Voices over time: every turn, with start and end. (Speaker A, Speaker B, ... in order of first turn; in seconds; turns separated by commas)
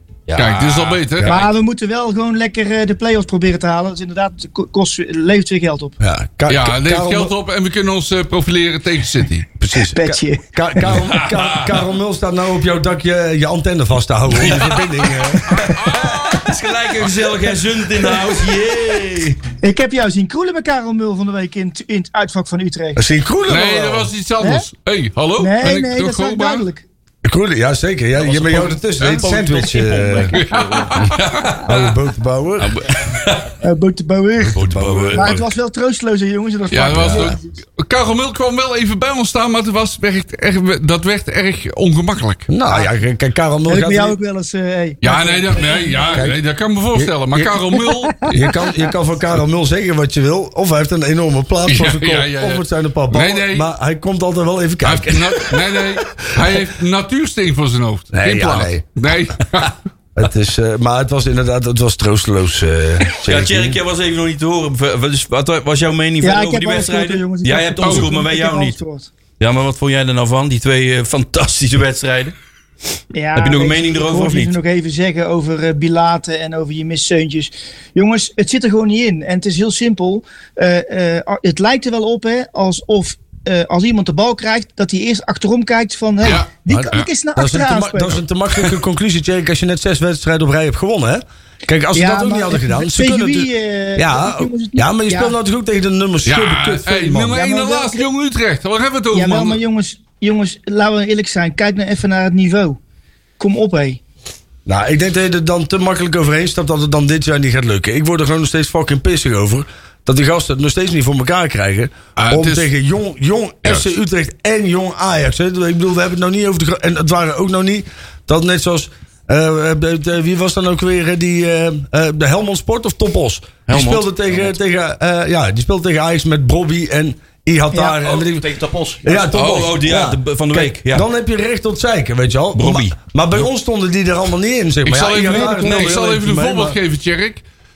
Speaker A: 0.3-1.4, Speaker B: 0.4-1.4, Speaker C: 1.2-6.0, Speaker D: 6.0-7.3, Speaker B: 6.5-9.5, Speaker D: 9.6-16.0, Speaker C: 9.8-10.8, Speaker A: 10.8-11.8, Speaker A: 14.3-19.4, Speaker B: 15.6-16.2, Speaker C: 19.6-23.0, Speaker D: 23.0-24.1, Speaker B: 23.5-26.6, Speaker C: 25.4-26.9, Speaker D: 27.2-30.4, Speaker E: 28.2-31.1, Speaker B: 30.3-31.2, Speaker A: 31.1-31.9, Speaker D: 31.6-32.8, Speaker A: 32.6-33.5, Speaker C: 33.6-37.6, Speaker D: 34.5-35.4, Speaker A: 34.5-35.4, Speaker B: 36.7-42.5, Speaker D: 36.9-37.3, Speaker D: 42.5-44.2, Speaker C: 43.7-46.3, Speaker B: 45.0-48.5, Speaker D: 46.1-46.4, Speaker D: 46.9-56.6, Speaker C: 48.5-48.8, Speaker B: 51.7-53.7, Speaker B: 54.8-59.7, Speaker D: 58.1-58.8, Speaker D: 60.2-63.8, Speaker A: 63.2-68.8, Speaker C: 66.2-69.1, Speaker B: 67.8-68.1, Speaker A: 69.4-72.3, Speaker C: 73.1-88.2, Speaker A: 73.4-74.6, Speaker B: 86.2-87.1, Speaker D: 86.7-97.4, Speaker C: 92.0-95.3, Speaker B: 96.2-99.6, Speaker C: 97.3-98.1, Speaker C: 99.1-102.8, Speaker C: 103.4-104.0, Speaker D: 104.7-128.5, Speaker B: 112.2-112.7, Speaker A: 123.7-124.5, Speaker E: 127.8-129.3, Speaker D: 129.0-136.8, Speaker A: 129.3-131.1, Speaker A: 132.6-133.0, Speaker B: 134.8-137.4, Speaker C: 135.3-135.6